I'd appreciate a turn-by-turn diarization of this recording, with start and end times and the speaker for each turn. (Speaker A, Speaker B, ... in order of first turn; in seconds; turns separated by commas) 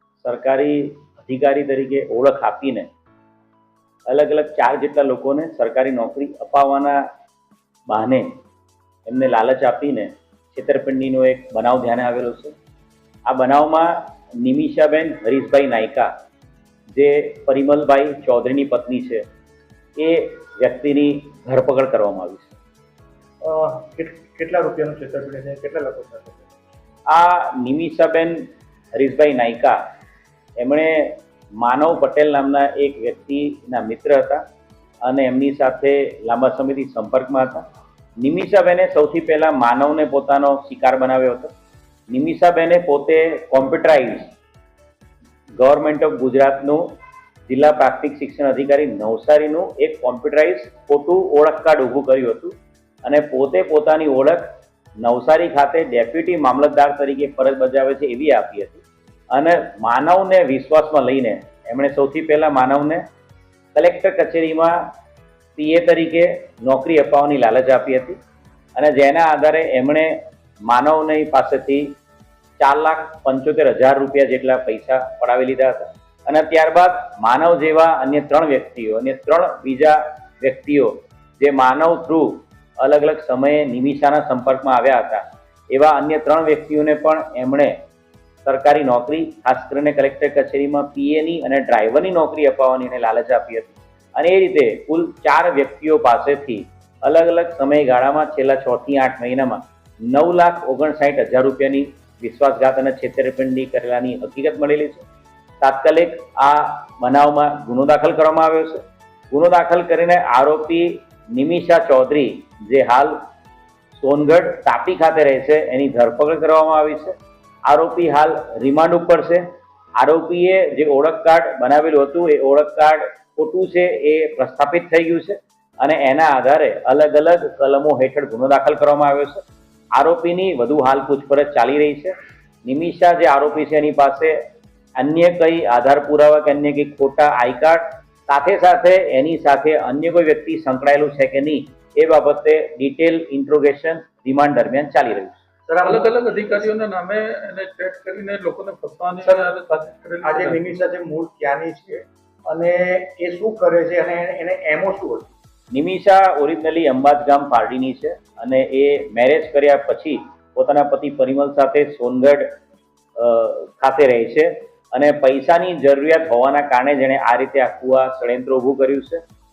Speaker A: 0.2-2.9, Speaker A: 4.1-7.1, Speaker A: 7.9-8.3, Speaker A: 9.1-12.6, Speaker A: 13.3-16.1, Speaker A: 16.9-19.2, Speaker A: 20.0-22.5, Speaker B: 23.4-26.5, Speaker A: 27.1-28.4, Speaker A: 28.9-29.8, Speaker A: 30.6-34.4, Speaker A: 35.0-37.6, Speaker A: 38.2-41.5, Speaker A: 42.1-44.3, Speaker A: 45.6-47.0, Speaker A: 47.5-54.5, Speaker A: 55.0-63.1, Speaker A: 63.8-64.9, Speaker A: 65.6-68.2, Speaker A: 68.8-70.2, Speaker A: 70.7-71.9, Speaker A: 72.6-87.8, Speaker A: 88.5-105.0, Speaker A: 105.6-113.2, Speaker A: 114.0-117.1, Speaker A: 117.7-119.4, Speaker A: 120.0-129.4, Speaker A: 130.0-132.1, Speaker A: 132.7-134.4, Speaker A: 135.0-145.4, Speaker B: 145.7-146.7, Speaker C: 145.8-150.6, Speaker B: 149.2-149.5, Speaker B: 150.2-155.3, Speaker A: 155.7-162.5, Speaker A: 163.2-169.2